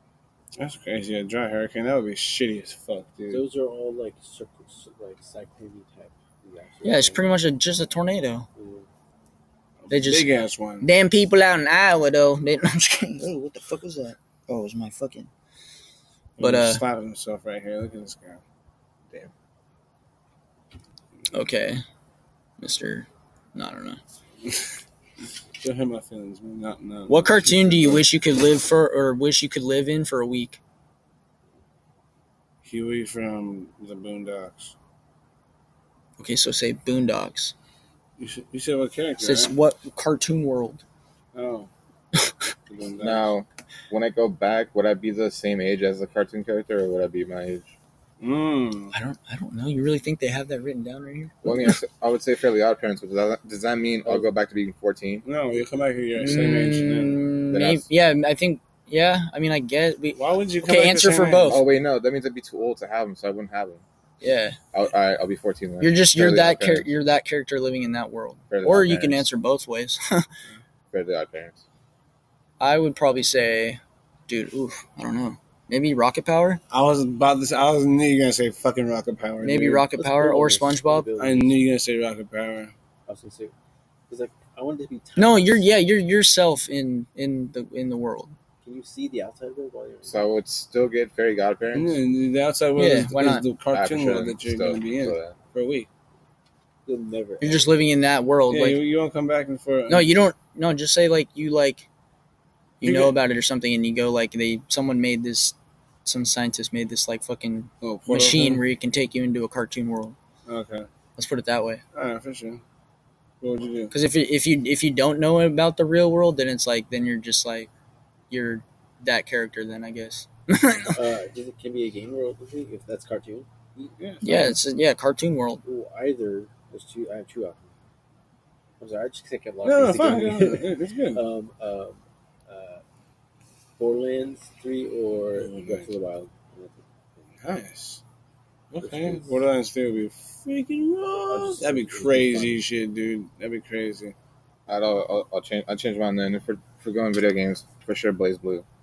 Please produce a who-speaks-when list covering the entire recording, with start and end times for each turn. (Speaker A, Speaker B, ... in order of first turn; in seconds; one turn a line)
Speaker A: 0.6-3.4
Speaker B: 3.3-7.3
Speaker C: 6.8-8.5
Speaker B: 8.6-8.9
Speaker A: 9.9-10.9
Speaker C: 9.9-10.3
Speaker C: 10.8-15.3
Speaker A: 16.4-18.4
Speaker C: 16.4-16.8
Speaker C: 21.3-21.8
Speaker C: 22.6-24.0
Speaker A: 25.6-28.1
Speaker C: 27.1-30.6
Speaker A: 32.6-34.7
Speaker C: 36.2-37.5
Speaker A: 38.2-39.5
Speaker C: 39.2-40.8
Speaker A: 41.3-41.7
Speaker A: 42.7-43.3
Speaker D: 43.0-47.7
Speaker A: 48.2-48.9
Speaker C: 48.9-51.5
Speaker D: 51.4-55.2
Speaker A: 55.2-57.2
Speaker C: 56.2-61.6
Speaker D: 57.5-57.9
Speaker A: 60.1-61.6
Speaker D: 61.5-63.8
Speaker C: 64.2-64.6
Speaker D: 64.7-66.9
Speaker C: 65.8-70.3
Speaker D: 68.5-69.3
Speaker D: 70.9-71.6
Speaker C: 72.6-76.6
Speaker A: 76.7-79.9
Speaker C: 79.4-81.1
Speaker B: 80.0-81.6
Speaker A: 81.2-82.7
Speaker B: 83.0-83.5
Speaker B: 84.1-85.6
Speaker C: 85.2-88.4
Speaker B: 88.6-90.2
Speaker D: 90.0-92.0
Speaker A: 91.7-95.9
Speaker C: 92.8-93.5
Speaker D: 93.7-95.4
Speaker B: 96.9-97.7
Speaker C: 97.4-98.8
Speaker A: 98.5-100.1
Speaker C: 99.9-101.9
Speaker C: 102.8-110.2
Speaker A: 102.8-103.2
Speaker A: 107.8-108.6
Speaker A: 110.5-110.9
Speaker C: 111.2-111.8
Speaker A: 112.0-112.6
Speaker A: 113.4-113.9
Speaker C: 113.9-117.7
Speaker C: 118.3-121.1
Speaker B: 120.9-123.9
Speaker A: 124.0-124.6
Speaker C: 124.2-125.6
Speaker B: 125.6-127.7
Speaker B: 128.8-132.8
Speaker A: 129.6-131.2
Speaker B: 133.8-136.9
Speaker A: 135.3-135.9
Speaker A: 137.4-138.0
Speaker A: 138.7-144.1
Speaker B: 138.8-139.4
Speaker B: 141.3-142.6
Speaker D: 144.7-148.6